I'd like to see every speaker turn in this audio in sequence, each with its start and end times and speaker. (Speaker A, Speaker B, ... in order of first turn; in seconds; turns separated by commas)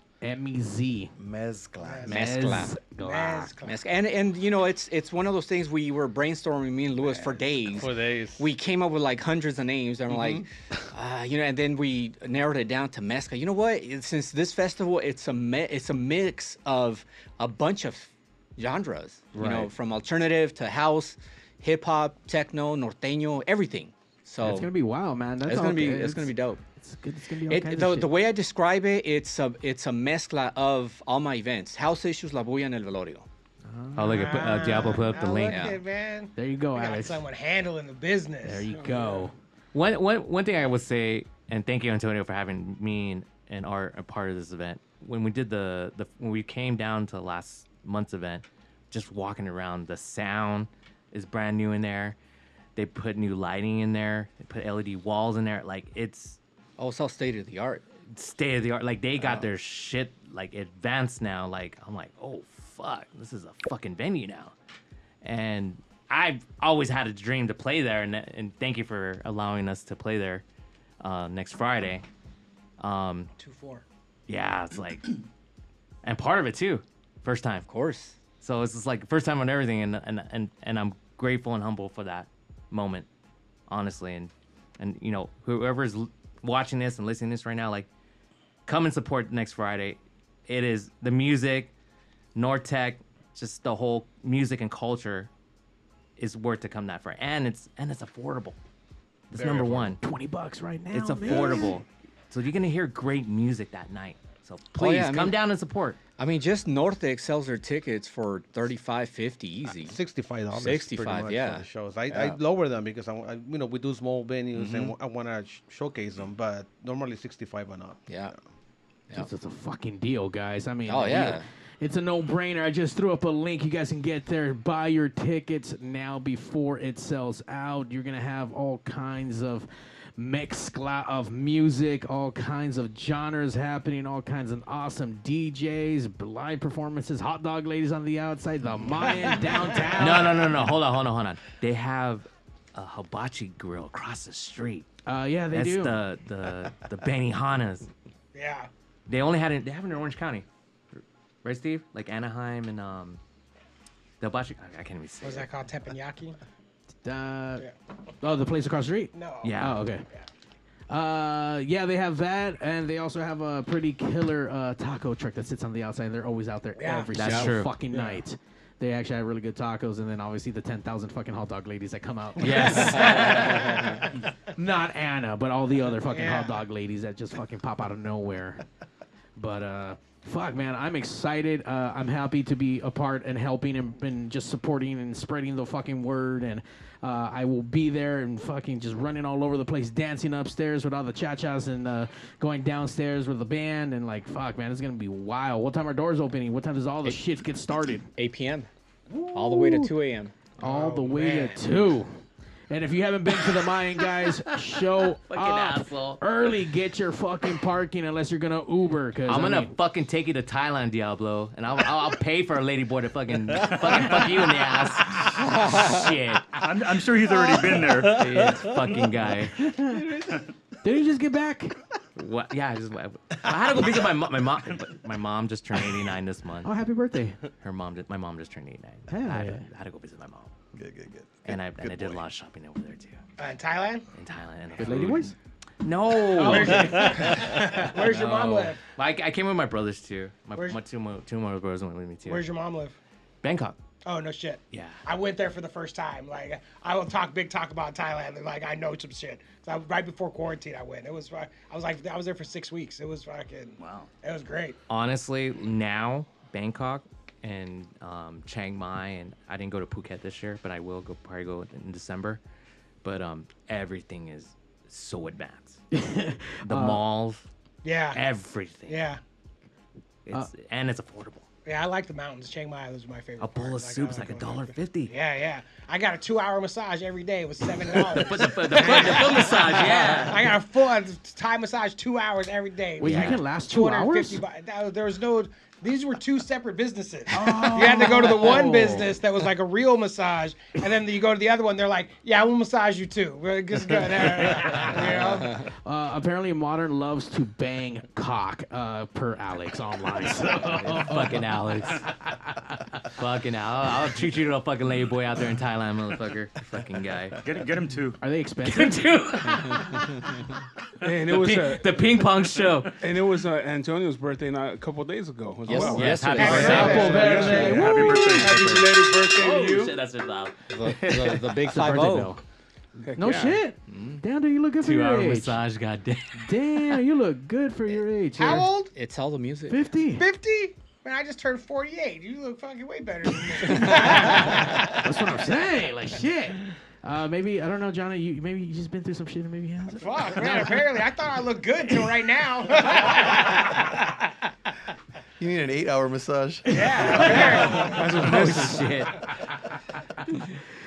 Speaker A: 0.2-1.1, Speaker B: 1.2-2.2, Speaker C: 1.8-3.8, Speaker A: 2.1-3.5, Speaker D: 2.1-2.8, Speaker D: 3.6-24.7, Speaker E: 7.2-8.5, Speaker E: 10.1-10.4, Speaker A: 19.4-19.7, Speaker A: 24.4-28.1, Speaker D: 25.5-26.6, Speaker D: 27.5-33.3, Speaker A: 33.7-34.5, Speaker F: 34.0-35.7, Speaker C: 34.1-38.7, Speaker D: 35.5-35.8, Speaker A: 36.4-37.2, Speaker A: 38.4-39.4, Speaker G: 38.7-39.3, Speaker F: 39.7-52.2, Speaker F: 52.8-56.4, Speaker D: 56.8-57.8, Speaker F: 58.1-64.5, Speaker F: 65.2-70.4, Speaker F: 71.0-72.0, Speaker F: 72.8-73.3, Speaker C: 73.4-73.8, Speaker F: 74.3-75.1, Speaker F: 76.0-77.7, Speaker D: 77.7-78.2, Speaker F: 78.4-83.1, Speaker F: 83.7-87.9, Speaker F: 88.7-91.7, Speaker F: 92.3-95.3, Speaker F: 96.2-98.6, Speaker F: 99.3-100.0, Speaker D: 99.4-99.8, Speaker A: 99.5-101.8, Speaker F: 100.9-106.0, Speaker B: 101.3-101.6, Speaker D: 104.8-105.4, Speaker D: 106.2-110.0, Speaker E: 109.8-118.3, Speaker D: 110.5-112.4, Speaker D: 114.5-114.9, Speaker D: 118.1-118.3, Speaker A: 119.1-140.4, Speaker D: 120.9-121.5, Speaker F: 140.0-144.9, Speaker A: 145.1-146.0, Speaker F: 145.5-147.9, Speaker C: 148.3-148.7, Speaker F: 149.1-153.2, Speaker F: 154.2-155.5, Speaker C: 155.2-156.4, Speaker A: 157.1-157.7, Speaker A: 158.2-160.0, Speaker C: 159.1-160.3, Speaker F: 159.4-159.8, Speaker A: 160.9-173.6, Speaker C: 166.8-167.1, Speaker F: 167.2-167.8, Speaker D: 167.2-167.5, Speaker F: 172.4-173.9, Speaker D: 173.6-173.9, Speaker A: 174.6-178.7, Speaker C: 176.1-176.6, Speaker A: 179.4-198.1, Speaker D: 198.2-198.7, Speaker A: 199.1-199.9, Speaker D: 199.3-200.3, Speaker A: 200.6-209.7, Speaker G: 200.6-201.4, Speaker C: 201.1-201.6, Speaker F: 205.3-206.2, Speaker F: 209.3-216.7, Speaker H: 213.7-214.4, Speaker D: 215.4-216.0, Speaker H: 216.6-218.6, Speaker E: 217.4-219.0, Speaker F: 218.1-219.7, Speaker A: 219.6-220.0, Speaker E: 219.8-220.5, Speaker A: 220.8-221.8, Speaker F: 222.2-226.7, Speaker A: 226.6-227.4, Speaker F: 227.6-230.5, Speaker A: 229.1-229.7, Speaker B: 230.7-232.2, Speaker F: 231.4-233.2, Speaker C: 233.4-234.1, Speaker F: 234.2-242.4, Speaker A: 234.8-235.3, Speaker C: 236.2-238.8, Speaker C: 242.3-243.0, Speaker F: 243.4-243.8, Speaker C: 244.1-254.8, Speaker F: 244.7-245.0, Speaker H: 253.8-254.1, Speaker F: 254.9-262.4, Speaker F: 263.0-265.8, Speaker A: 265.9-267.0, Speaker F: 266.6-267.4, Speaker C: 267.8-268.3, Speaker F: 268.1-269.1, Speaker C: 268.9-269.2, Speaker F: 270.3-271.5, Speaker C: 271.7-295.7, Speaker F: 273.4-275.1, Speaker F: 277.9-280.6, Speaker A: 283.0-284.4, Speaker F: 283.1-283.4, Speaker A: 287.3-289.2, Speaker A: 294.4-301.4, Speaker D: 295.2-295.7, Speaker F: 300.8-302.3, Speaker A: 302.3-302.6, Speaker F: 303.0-307.4, Speaker H: 307.4-308.2, Speaker A: 308.2-309.1, Speaker F: 308.6-310.5, Speaker G: 311.0-312.2, Speaker F: 311.2-313.0, Speaker G: 313.0-320.0, Speaker D: 315.6-317.2, Speaker F: 315.8-321.8, Speaker A: 316.4-318.4, Speaker C: 316.4-317.8, Speaker H: 317.4-318.9, Speaker D: 320.7-322.3, Speaker A: 321.7-322.4, Speaker G: 323.0-323.6, Speaker A: 323.2-325.6, Speaker D: 323.9-324.2, Speaker F: 324.8-327.0, Speaker A: 326.4-328.7, Speaker C: 328.4-328.9, Speaker D: 328.9-329.8, Speaker A: 329.7-330.2, Speaker C: 330.1-335.1, Speaker D: 333.7-334.2, Speaker A: 334.0-340.8, Speaker C: 339.9-344.3, Speaker B: 345.4-347.2, Speaker C: 346.7-348.3, Speaker G: 347.2-349.1, Speaker F: 348.2-349.2, Speaker A: 350.2-350.6